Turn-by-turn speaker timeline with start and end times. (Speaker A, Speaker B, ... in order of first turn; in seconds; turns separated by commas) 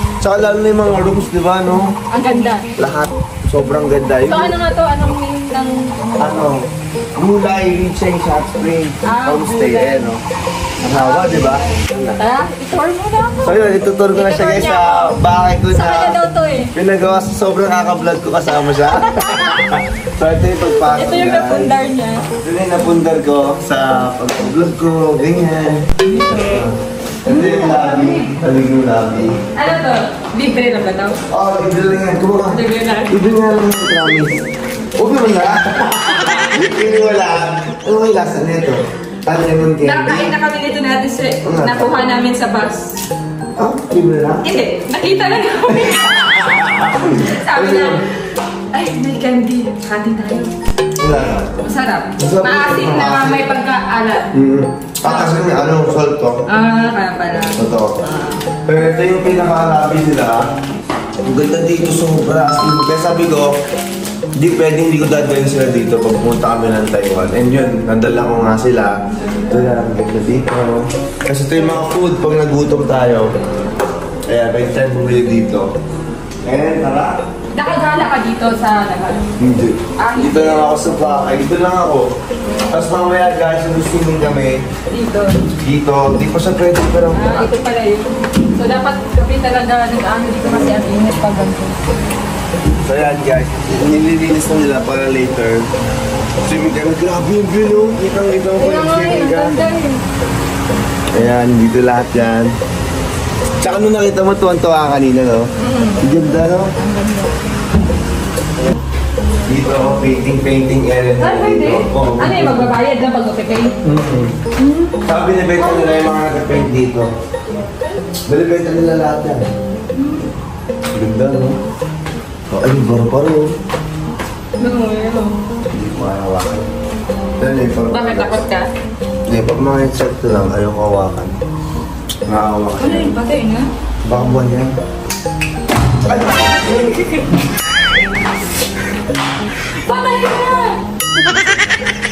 Speaker A: 0.2-1.9, Speaker B: 2.1-2.7, Speaker A: 2.8-4.5, Speaker B: 4.3-6.5, Speaker A: 6.2-10.2, Speaker B: 9.1-10.1, Speaker A: 10.8-12.2, Speaker B: 10.9-16.7, Speaker A: 13.4-16.2, Speaker A: 16.7-21.8, Speaker B: 19.2-19.5, Speaker B: 20.8-22.2, Speaker A: 22.4-29.4, Speaker B: 26.1-26.7, Speaker B: 27.3-28.3, Speaker B: 29.6-31.2, Speaker A: 31.3-34.4, Speaker B: 32.5-33.1, Speaker A: 35.0-40.4, Speaker B: 39.8-43.0, Speaker A: 41.4-42.0, Speaker A: 43.6-44.5, Speaker B: 44.4-48.0, Speaker A: 45.7-48.0, Speaker B: 48.7-50.5, Speaker A: 51.0-51.5, Speaker B: 51.6-54.3, Speaker A: 52.2-53.5, Speaker A: 54.3-56.4, Speaker B: 55.0-55.5, Speaker B: 56.5-57.6, Speaker A: 57.4-58.0, Speaker A: 58.7-60.5, Speaker A: 61.2-63.6, Speaker A: 64.4-73.3, Speaker B: 69.2-69.7, Speaker A: 74.3-75.7, Speaker A: 76.4-77.2, Speaker B: 77.5-79.2, Speaker A: 79.4-82.1, Speaker B: 80.0-80.9, Speaker A: 82.7-84.7, Speaker B: 84.9-85.4, Speaker A: 85.6-87.5, Speaker B: 87.1-91.8, Speaker A: 92.8-95.7, Speaker A: 96.4-99.6, Speaker B: 98.6-100.0, Speaker A: 101.1-102.5, Speaker A: 103.6-105.5, Speaker B: 105.6-106.0, Speaker A: 106.0-106.7, Speaker B: 106.8-107.3, Speaker A: 109.5-112.7, Speaker B: 111.2-113.8, Speaker A: 113.8-114.4, Speaker B: 114.6-115.0, Speaker A: 115.0-117.1, Speaker B: 115.6-116.0, Speaker A: 118.3-119.5, Speaker B: 120.0-120.2, Speaker A: 120.9-121.6, Speaker A: 122.5-123.5, Speaker B: 124.6-125.4, Speaker A: 125.7-126.7, Speaker A: 127.4-128.5, Speaker B: 127.9-128.7, Speaker A: 129.3-131.3, Speaker A: 132.3-133.2, Speaker B: 132.8-133.7, Speaker A: 134.0-134.7, Speaker A: 136.0-137.3, Speaker B: 136.9-137.2, Speaker B: 139.8-140.8